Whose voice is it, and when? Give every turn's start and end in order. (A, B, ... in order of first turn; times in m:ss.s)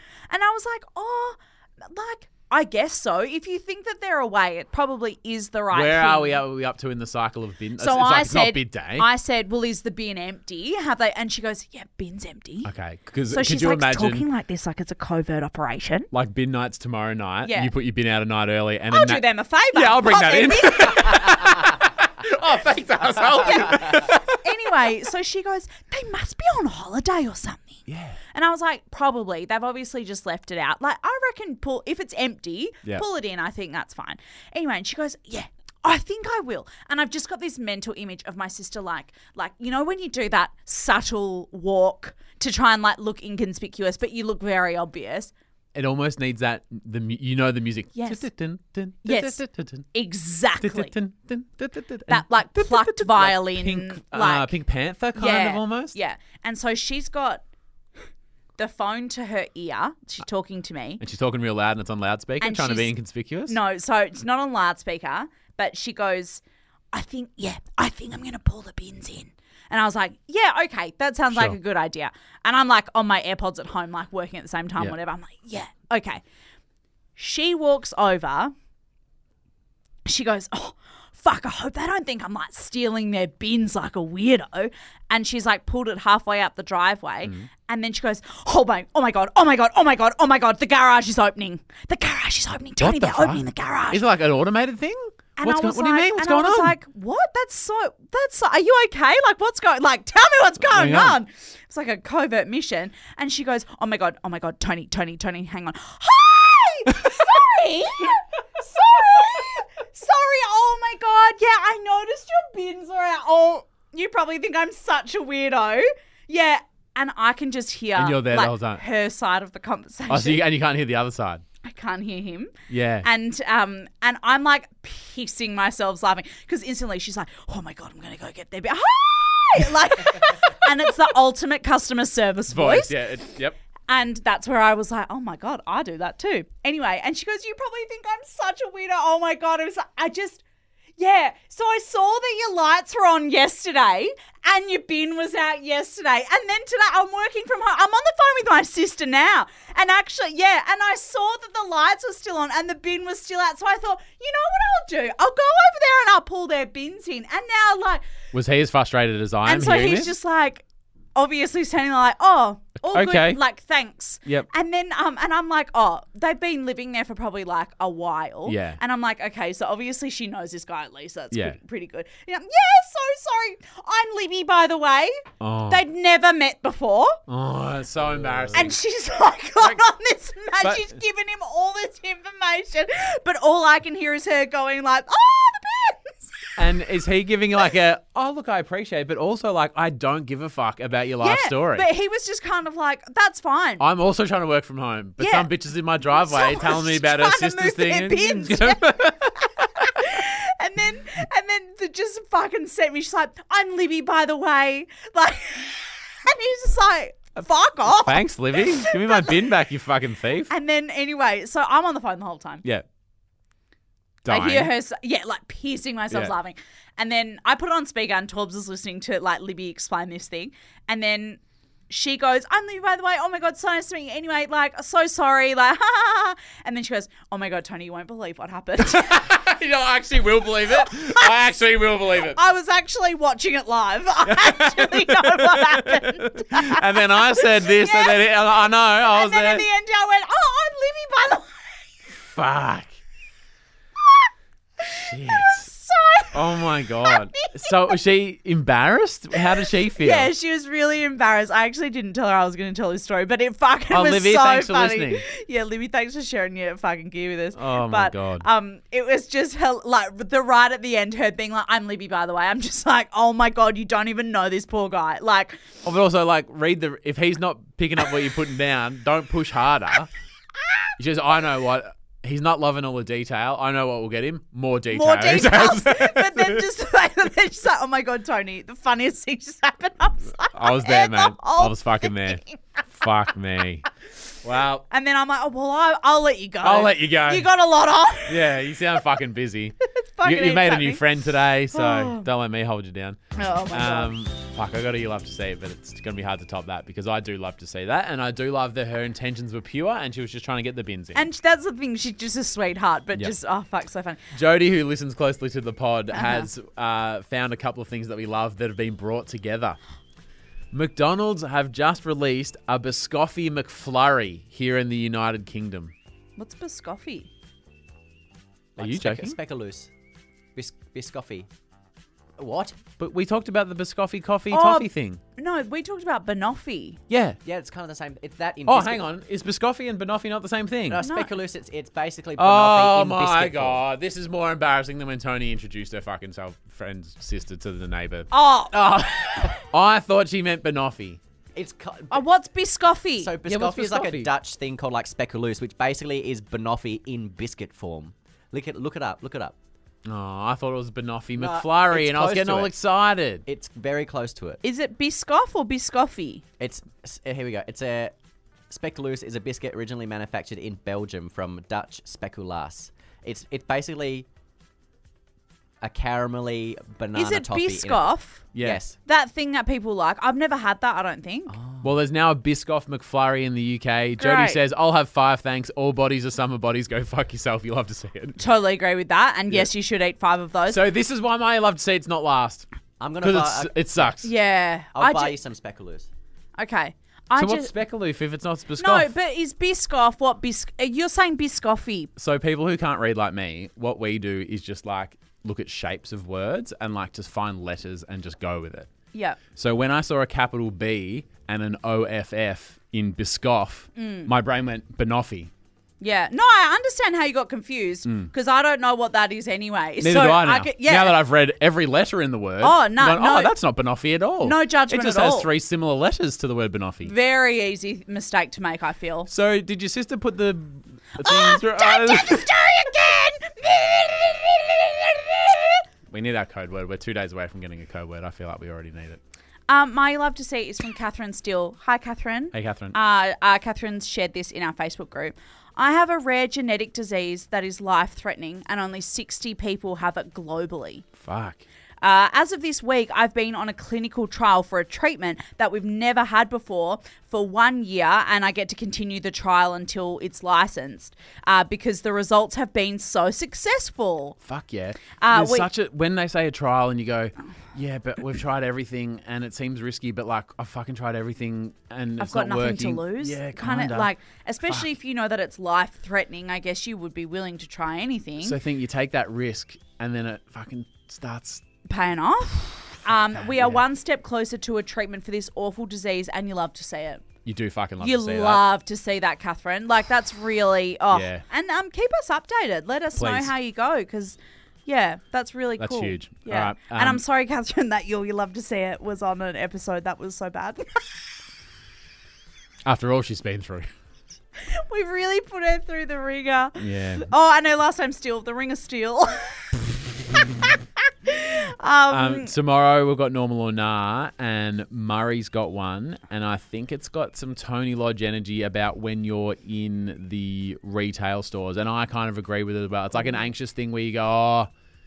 0:00.3-0:06.4 A
0:05.7-0:09.1 B
0:07.8-0:12.7 A
0:12.6-0:14.2 B
0:13.3-0:16.1 A
0:16.1-0:24.8 B
0:17.4-0:17.7 A
0:18.9-0:21.4 A
0:23.2-0:45.3 A
0:27.9-0:28.2 B
0:45.7-0:49.9 B
0:47.9-0:48.2 A
0:49.0-0:49.4 A
0:49.9-0:50.9 A
0:50.6-0:56.0 B
0:52.1-0:54.6 A
0:55.1-0:57.4 A
0:58.6-1:01.0 A
1:01.0-1:03.6 B
1:02.4-1:02.9 A
1:03.5-1:06.4 A
1:06.9-1:16.2 A
1:11.3-1:11.6 B
1:17.2-1:18.5 A
1:20.0-1:34.0 A
1:32.8-1:36.7 B
1:35.4-2:00.4 A
1:40.6-1:41.2 B
1:58.0-1:58.8 B
2:00.1-2:01.4 B
2:01.6-2:12.9 A
2:02.7-2:03.1 B
2:12.5-2:13.6 B
2:13.9-2:20.4 A
2:21.0-2:38.0 A
2:38.3-2:40.1 B
2:39.4-2:40.6 A
2:41.2-2:57.2 A
2:42.9-2:43.4 B
2:48.4-2:48.8 B
2:51.3-2:51.6 B
2:55.4-2:55.8 B
2:57.3-2:58.8 B
2:58.5-3:06.2 A
3:00.6-3:00.9 B
3:06.6-3:11.8 B
3:11.2-3:13.8 A
3:13.8-3:20.1 B
3:15.2-3:15.5 A
3:16.1-3:29.5 A
3:27.8-3:30.5 B
3:30.5-3:32.6 A
3:34.2-3:34.7 B
3:34.3-3:49.3 A
3:48.8-3:52.4 B
3:50.7-3:51.3 A
3:52.2-3:58.4 A
3:54.2-3:59.6 B
3:59.0-4:01.5 A
4:02.1-4:03.0 B
4:04.8-4:08.0 A
4:04.9-4:05.7 B
4:06.3-4:10.3 B
4:09.4-4:25.7 A
4:13.9-4:15.2 B
4:17.5-4:18.4 B
4:25.8-4:30.1 B
4:31.0-4:36.6 B
4:34.9-4:42.8 A
4:40.5-4:43.9 B
4:44.4-4:44.8 B
4:44.9-4:48.4 A
4:46.6-4:47.5 B
4:48.2-4:53.2 B
4:49.8-4:51.1 A
4:51.7-4:52.2 A
4:53.4-4:54.1 A
4:53.7-5:01.2 B
5:01.1-5:04.2 A
5:04.3-5:09.8 B
5:06.1-5:06.5 A
5:10.7-5:15.9 B
5:16.4-5:17.3 A
5:18.8-5:19.9 C
5:18.8-5:19.4 B
5:20.5-5:21.5 C
5:22.4-5:22.8 C
5:23.0-5:25.2 B
5:24.5-5:27.0 A
5:27.1-5:27.4 B
5:27.4-5:29.1 C
5:28.6-5:31.0 B
5:30.9-5:33.8 C
5:31.0-5:31.3 A
5:32.4-5:41.2 B
5:38.3-5:39.5 A
5:41.5-5:42.2 C
5:42.1-5:43.4 A
5:43.2-5:49.6 C
5:43.4-5:44.3 B
5:50.0-5:53.4 B
5:51.4-5:52.7 C
5:53.4-5:54.6 C
5:54.6-5:56.4 A
5:56.6-5:58.1 C
5:58.7-6:04.3 C
6:05.8-6:08.0 C
6:07.1-6:08.5 A
6:08.5-6:08.8 B
6:08.6-6:09.0 C
6:09.1-6:11.5 A
6:11.5-6:11.8 C
6:11.8-6:18.4 B
6:14.2-6:14.6 A
6:18.4-6:20.8 A
6:20.7-6:22.7 B
6:23.0-6:24.1 C
6:23.2-6:24.3 B
6:24.2-6:25.4 A
6:24.9-6:26.1 C
6:26.6-6:27.7 A
6:27.4-6:29.1 B
6:28.8-6:32.1 A
6:32.2-6:38.9 B
6:39.1-6:39.4 A
6:39.5-6:45.5 B
6:44.0-6:44.3 A
6:46.0-6:51.2 A
6:48.0-6:48.3 B
6:50.0-6:57.1 B
6:52.6-6:53.5 A
6:54.4-6:55.5 A
6:57.0-6:59.3 A
6:59.3-7:02.5 B
7:01.2-7:05.8 A
7:06.1-7:09.2 B
7:09.7-7:21.1 A
7:12.5-7:13.0 B
7:21.2-7:21.6 B
7:22.0-7:34.4 A
7:34.4-7:44.1 B
7:35.2-7:35.7 A
7:42.2-7:48.6 A
7:48.4-7:51.6 B
7:51.9-7:57.2 A
7:53.1-7:53.8 B
7:57.4-7:58.6 B
7:58.0-8:11.2 A
8:01.1-8:01.4 B
8:03.2-8:03.5 B
8:05.8-8:07.2 B
8:12.8-8:13.9 B
8:14.6-8:19.8 A
8:16.8-8:17.3 B
8:21.2-8:22.5 A
8:22.1-8:34.7 B
8:33.2-8:33.4 A